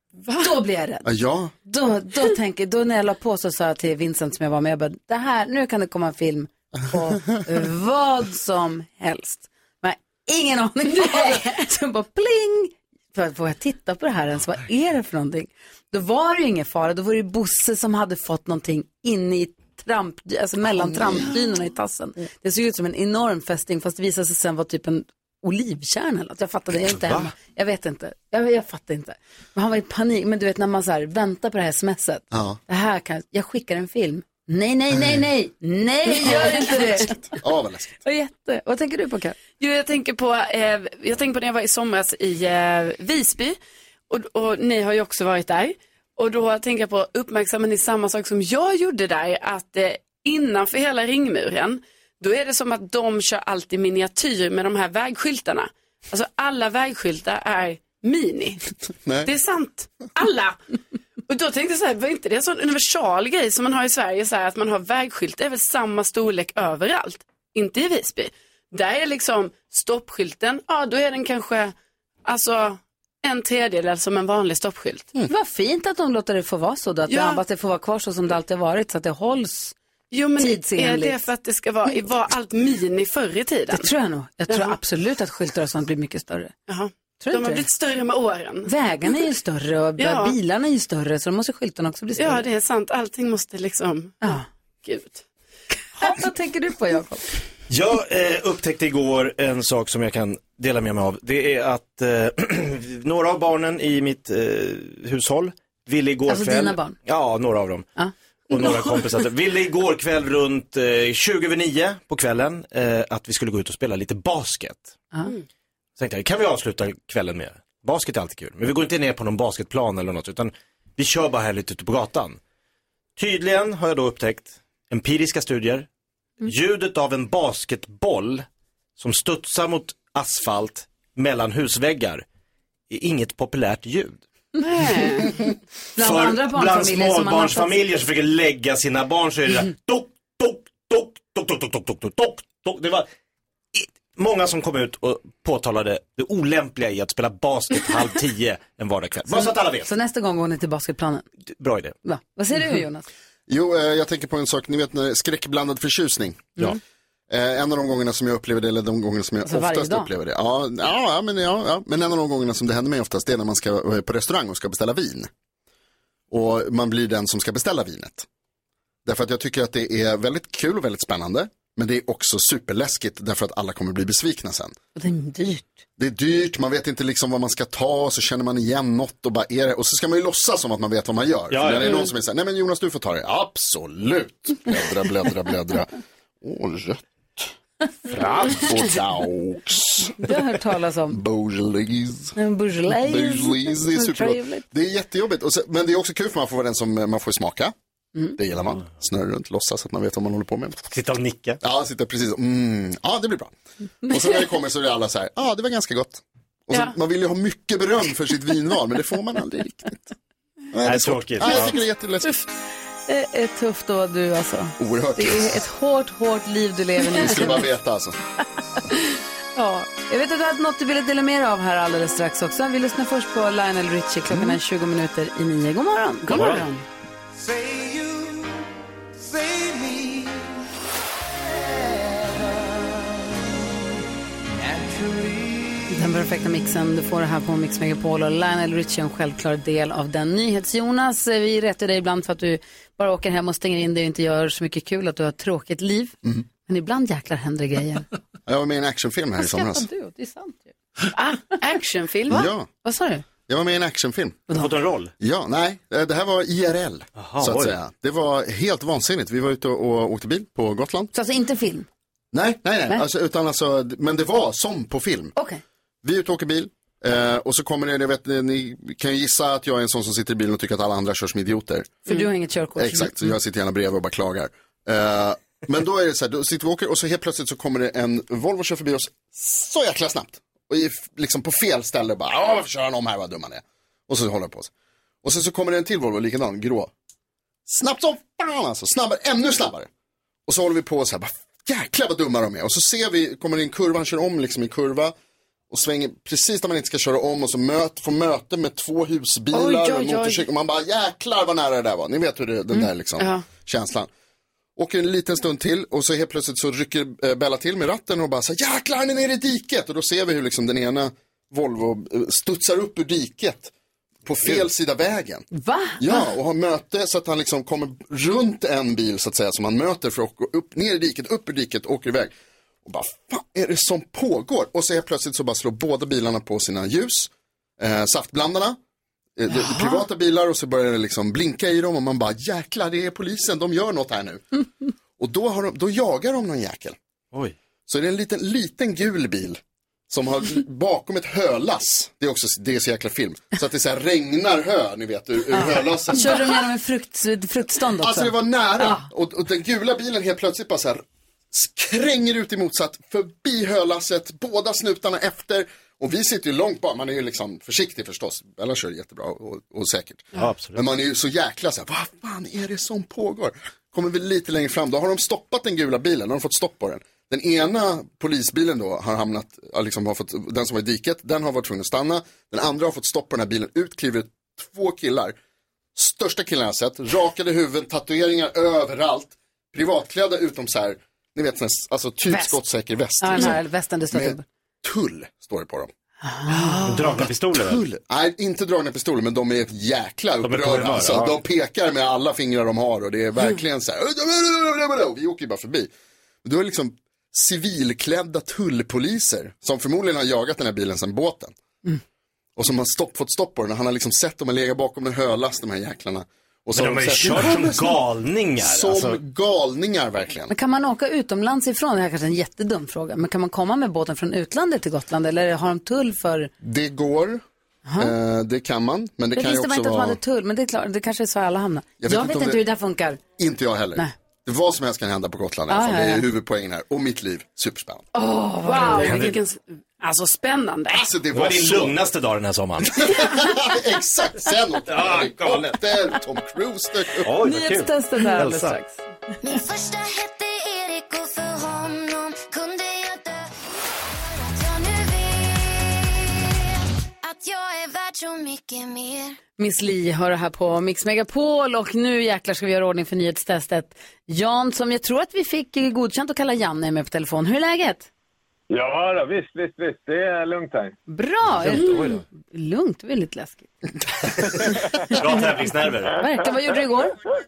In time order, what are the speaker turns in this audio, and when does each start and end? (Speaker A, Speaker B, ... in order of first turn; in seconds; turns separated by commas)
Speaker A: 0.2-0.5, Speaker B: 0.4-1.1, Speaker C: 1.0-1.5, Speaker B: 1.6-37.1, Speaker D: 26.9-27.3, Speaker C: 32.3-32.6, Speaker A: 36.3-36.8, Speaker C: 37.3-38.0, Speaker B: 38.0-39.4, Speaker A: 39.5-43.6, Speaker A: 44.1-58.6, Speaker C: 59.0-59.3, Speaker A: 59.2-60.6, Speaker A: 61.3-71.7, Speaker A: 72.2-75.1, Speaker B: 75.2-79.8, Speaker A: 77.1-77.4, Speaker A: 80.1-83.9, Speaker B: 80.4-81.2, Speaker B: 83.7-86.5, Speaker A: 84.5-84.8, Speaker A: 86.7-88.7, Speaker B: 87.2-87.7, Speaker B: 88.6-92.5, Speaker A: 90.0-90.3, Speaker A: 92.2-95.2, Speaker B: 96.0-97.2, Speaker D: 97.7-107.8, Speaker B: 106.3-107.0, Speaker D: 108.5-114.9, Speaker D: 116.0-122.4, Speaker D: 123.2-125.9, Speaker D: 126.4-128.4, Speaker D: 129.0-132.2, Speaker D: 132.9-134.2, Speaker A: 134.6-135.3, Speaker B: 135.9-137.8, Speaker D: 136.0-143.1, Speaker D: 143.7-149.9, Speaker B: 149.4-151.3, Speaker D: 151.5-151.9, Speaker B: 152.0-153.1, Speaker C: 153.5-156.7, Speaker C: 157.3-165.3, Speaker B: 159.4-160.1, Speaker C: 166.3-168.2, Speaker C: 169.0-174.7, Speaker B: 174.9-175.8, Speaker C: 176.0-185.9, Speaker D: 181.5-182.0, Speaker C: 186.4-187.5, Speaker C: 188.1-190.3, Speaker D: 188.2-188.5, Speaker B: 190.2-191.2, Speaker C: 191.1-192.3, Speaker B: 192.3-194.6, Speaker C: 193.0-197.7, Speaker C: 198.3-200.8, Speaker D: 200.8-201.6, Speaker C: 201.6-203.5, Speaker C: 204.0-210.1, Speaker C: 210.7-212.3, Speaker D: 210.8-211.8, Speaker B: 213.1-217.6, Speaker C: 214.8-215.6, Speaker C: 217.1-218.2, Speaker B: 219.6-226.6, Speaker A: 226.3-226.8, Speaker D: 226.3-226.6, Speaker E: 227.4-230.6, Speaker E: 231.5-232.9, Speaker E: 234.6-235.8, Speaker B: 235.9-248.1, Speaker C: 248.4-249.9, Speaker B: 249.4-250.7, Speaker A: 251.1-252.5, Speaker C: 252.3-252.7, Speaker B: 252.3-253.2, Speaker C: 253.5-254.5, Speaker D: 254.5-255.1, Speaker C: 255.2-261.1, Speaker D: 257.2-257.7, Speaker B: 261.1-261.9, Speaker C: 262.3-265.3, Speaker C: 266.0-272.1, Speaker B: 272.1-273.3, Speaker C: 272.8-284.7, Speaker C: 285.2-286.9, Speaker C: 287.6-289.9, Speaker C: 290.5-295.1, Speaker C: 295.7-304.1, Speaker A: 299.5-300.4, Speaker A: 303.2-303.4, Speaker C: 304.8-313.7, Speaker C: 314.2-315.5, Speaker B: 315.5-316.2, Speaker C: 316.0-322.3, Speaker C: 322.8-328.8, Speaker C: 329.4-334.4, Speaker C: 335.2-336.9, Speaker C: 337.9-346.6, Speaker B: 345.5-349.1, Speaker C: 348.0-375.4, Speaker D: 360.4-360.8, Speaker C: 375.9-383.6, Speaker B: 383.2-384.4, Speaker C: 384.1-385.9, Speaker B: 386.2-387.1, Speaker D: 386.9-387.8, Speaker C: 387.5-395.9, Speaker D: 390.4-391.4, Speaker C: 396.4-401.5, Speaker C: 402.6-408.0, Speaker D: 406.7-409.2, Speaker C: 408.6-410.5, Speaker B: 410.5-416.5, Speaker C: 416.6-417.4, Speaker B: 417.9-418.1, Speaker C: 418.0-420.2, Speaker B: 419.4-423.2, Speaker C: 422.0-422.6, Speaker C: 423.4-428.1, Speaker B: 425.7-426.3, Speaker B: 428.1-429.2, Speaker A: 428.6-431.0, Speaker D: 429.0-429.4, Speaker C: 430.9-432.0, Speaker D: 431.3-433.1, Speaker C: 433.0-437.4, Speaker D: 434.9-435.8, Speaker D: 437.2-438.8, Speaker B: 437.4-439.0, Speaker F: 439.4-446.5, Speaker F: 447.2-449.4, Speaker B: 449.6-458.1, Speaker G: 458.7-460.9, Speaker B: 461.1-463.7, Speaker D: 461.6-462.2, Speaker D: 465.1-466.1, Speaker B: 466.1-467.2